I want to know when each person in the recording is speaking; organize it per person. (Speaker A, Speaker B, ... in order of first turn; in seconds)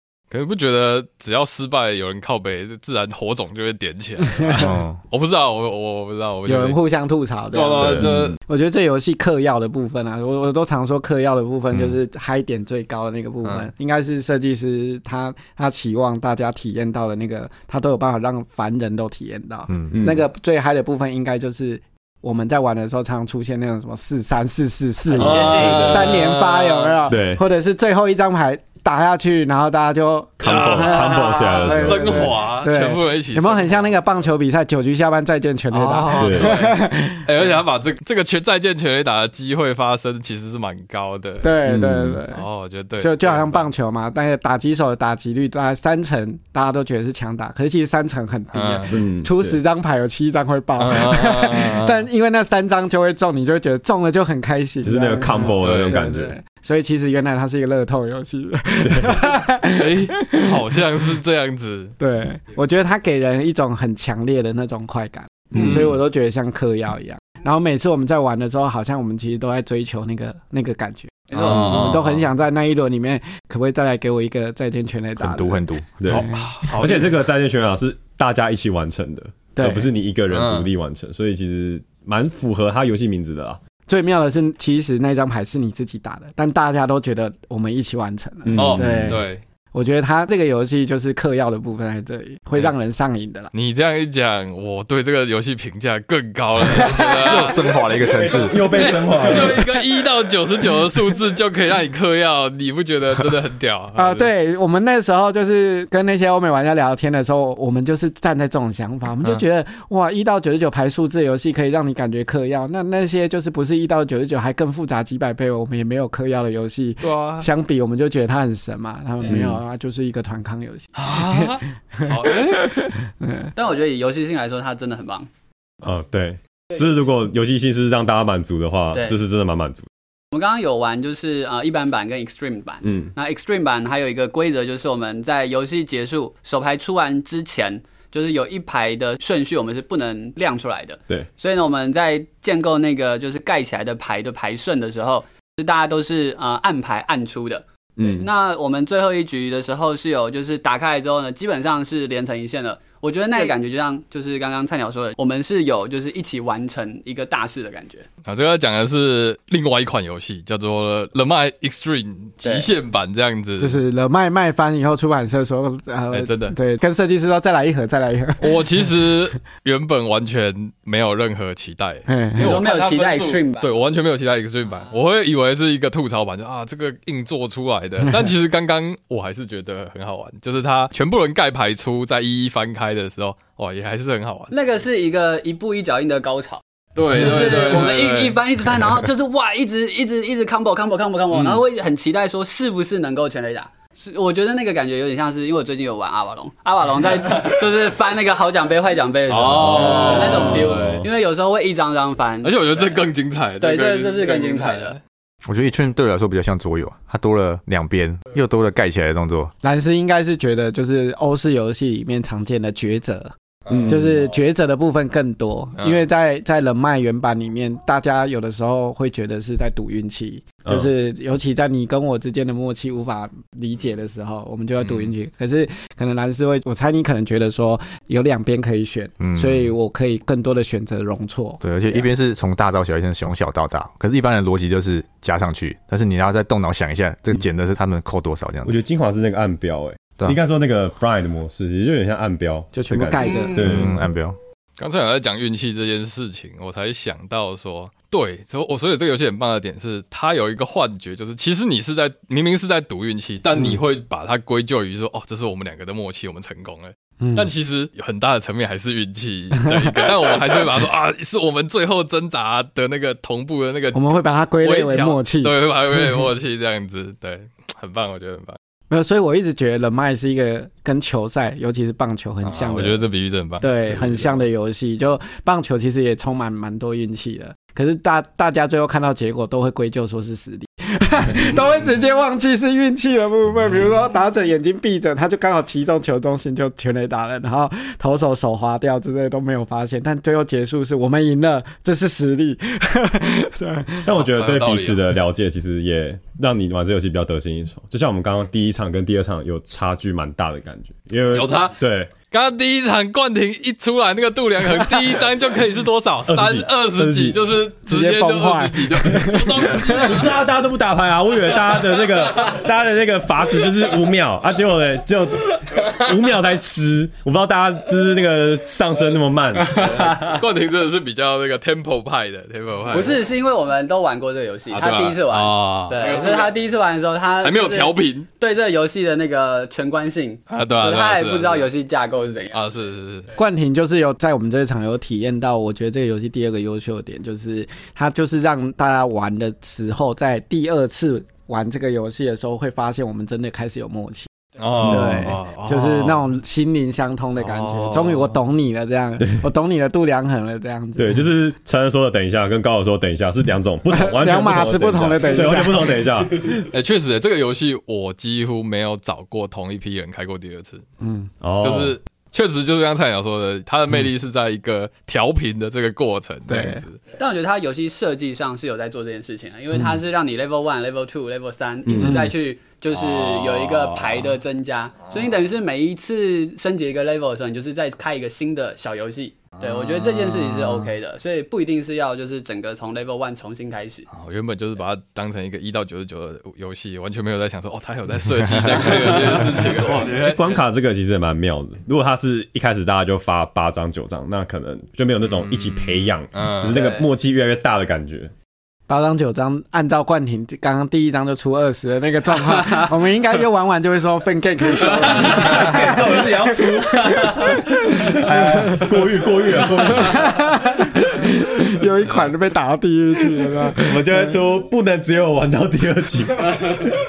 Speaker A: 0.3-6.8, 7.5-8.4, 25.2-27.1, 30.4-34.0, 35.7-41.5, 42.3-43.7, 48.5-48.9, 50.8-52.0, 55.6-56.0, 59.8-61.9, 65.5-65.9, 71.3-72.2, 76.1-77.1, 80.3-80.7, 88.5-89.4, 93.5-97.8, 98.7-104.3, 117.0-117.5, 121.0-122.7, 158.2-163.8, 166.1-166.6, 168.4-184.5, 186.9-188.4, 191.3-191.6, 199.3-201.1, 202.4-205.0, 213.8-214.2, 215.8-216.0, 224.8-225.1, 244.8-268.6, 272.4-274.3, 294.2-295.2, 301.3-301.8, 302.3-310.3, 319.7-323.3, 324.7-326.6, 327.4-328.3, 330.5-331.7, 332.5-333.3, 344.6-346.2, 347.4-348.4, 356.7-360.8, 361.6-367.0, 372.9-374.4, 379.6-380.9, 384.1-390.6, 395.4-396.8
Speaker B: 4.4-4.6, 6.5-37.5, 41.4-42.4, 43.0-60.8, 62.0-76.8, 79.5-79.9, 83.9-93.5, 96.6-97.5, 104.0-123.5, 163.6-168.8, 172.1-172.6, 209.6-213.3, 213.8-232.1, 242.7-243.7, 257.2-257.5, 259.7-260.4, 263.9-266.2, 268.9-273.0, 273.6-294.1, 304.7-305.1, 307.9-310.2, 333.4-344.3, 344.8-351.2, 353.9-356.0, 361.0-361.3, 366.5-366.8, 369.7-370.0, 371.9-372.3, 398.9-409.0, 409.9-414.4
Speaker C: 4.5-5.0, 75.2-76.0, 97.2-98.7, 205.4-209.5, 229.2-229.7, 231.6-238.7, 243.6-244.4
Speaker D: 7.8-8.3, 19.9-20.2, 25.2-26.1, 27.1-27.4, 30.4-32.3, 36.2-36.6, 41.7-42.2, 48.9-49.6, 54.8-56.3, 58.8-59.2, 65.5-65.9, 76.0-83.6, 88.4-89.2, 98.1-99.6, 125.8-129.8, 132.8-133.1, 148.0-148.3, 213.7-214.1, 220.6-220.9, 238.6-244.0, 294.0-302.1, 306.3-307.4, 309.9-319.9, 350.9-356.6, 361.4-362.0, 371.8-372.2, 390.1-398.3, 405.1-410.5, 413.7-416.9
Speaker E: 25.1-26.2, 71.3-72.0, 123.5-125.3, 130.3-158.1, 162.4-162.7, 172.4-173.7, 184.5-203.0, 203.6-205.0, 243.2-243.6, 322.9-332.6, 367.2-384.1, 388.7-390.1, 396.7-397.1